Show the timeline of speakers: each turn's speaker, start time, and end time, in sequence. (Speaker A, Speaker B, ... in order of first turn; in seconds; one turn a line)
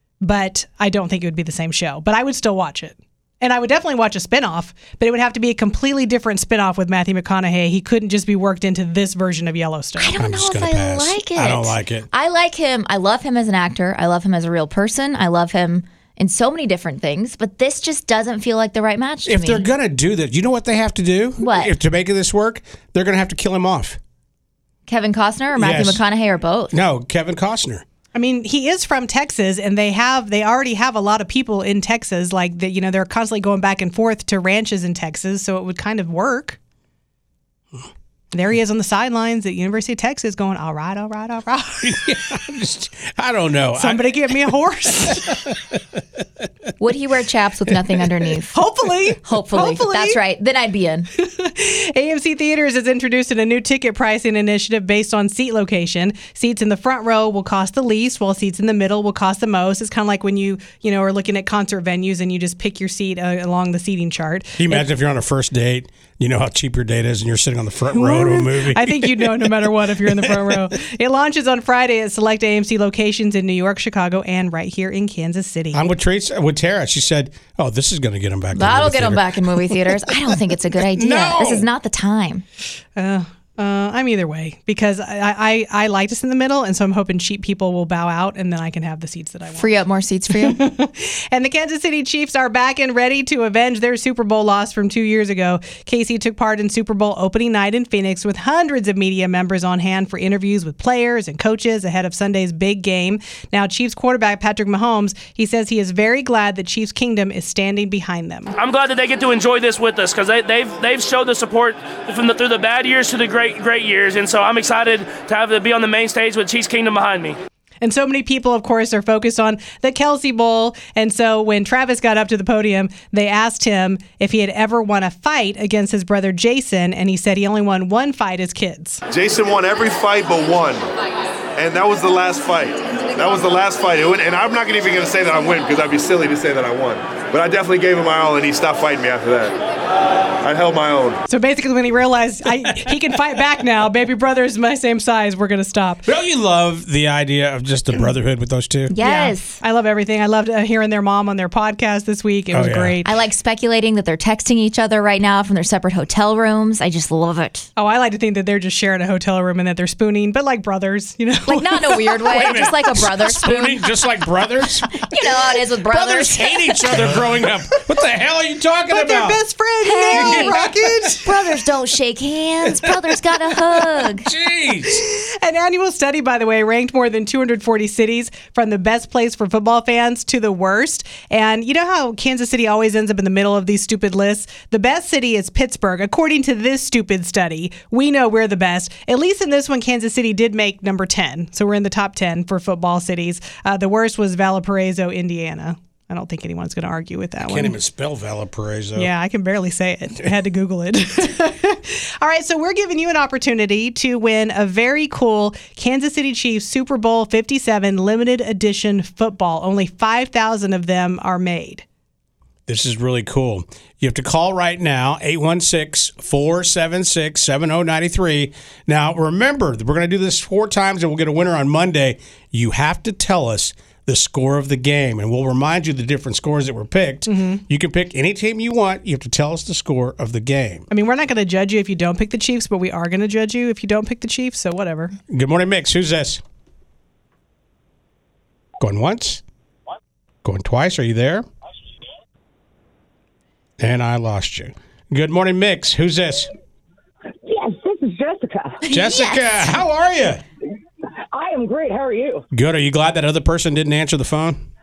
Speaker A: 0.2-10.1
Speaker B: 10.0-19.7
Speaker C: 10.1-12.1
Speaker C: 19.3-24.0
Speaker B: 21.4-21.7
Speaker B: 24.9-26.8
Speaker C: 25.6-26.0
Speaker C: 26.7-27.8
Speaker A: 28.1-36.6
Speaker A: 38.3-41.9
Speaker C: 41.8-44.5
Speaker A: 43.8-45.2
Speaker C: 45.1-45.7
Speaker B: 46.8-48.6
Speaker A: 48.5-50.2
Speaker B: 49.2-51.1
Speaker A: 51.2-64.8
Speaker C: 64.6-69.7
Speaker A: 67.9-75.8
Speaker C: 75.7-79.9
Speaker B: 78.5-82.4
Speaker C: 81.0-81.7
Speaker A: 83.0-89.8
Speaker B: 89.5-90.6
Speaker A: 90.3-108.5
Speaker D: 108.6-117.4
Speaker A: 117.8-129.0
Speaker E: 129.1-130.9
Speaker E: 131.6-139.6
Speaker E: 140.4-141.2
Speaker A: 141.3-146.1
Speaker C: 146.1-148.9
Speaker B: 148.9-149.6
Speaker A: 149.0-153.2
Speaker C: 152.5-153.0
Speaker B: 153.0-157.7
Speaker A: 157.8-162.3
Speaker B: 161.5-164.0
Speaker C: 162.3-169.4
Speaker B: 164.9-167.2
Speaker A: 168.9-171.3
Speaker B: 169.8-170.6
Speaker C: 170.1-170.6
Speaker B: 171.2-174.3
Speaker C: 174.0-175.0
Speaker A: 174.9-197.8
Speaker C: 197.4-199.1
Speaker A: 199.0-211.8
Speaker C: 212.7-230.9
Speaker A: 227.3-227.6
Speaker A: 230.9-235.2
Speaker C: 235.3-236.4
Speaker C: 238.8-239.4
Speaker C: 240.4-241.5
Speaker C: 243.8-246.5
Speaker F: 247.4-248.8
Speaker B: 248.8-249.7
Speaker C: 248.9-250.4
Speaker F: 251.3-252.5
Speaker C: 252.5-254.6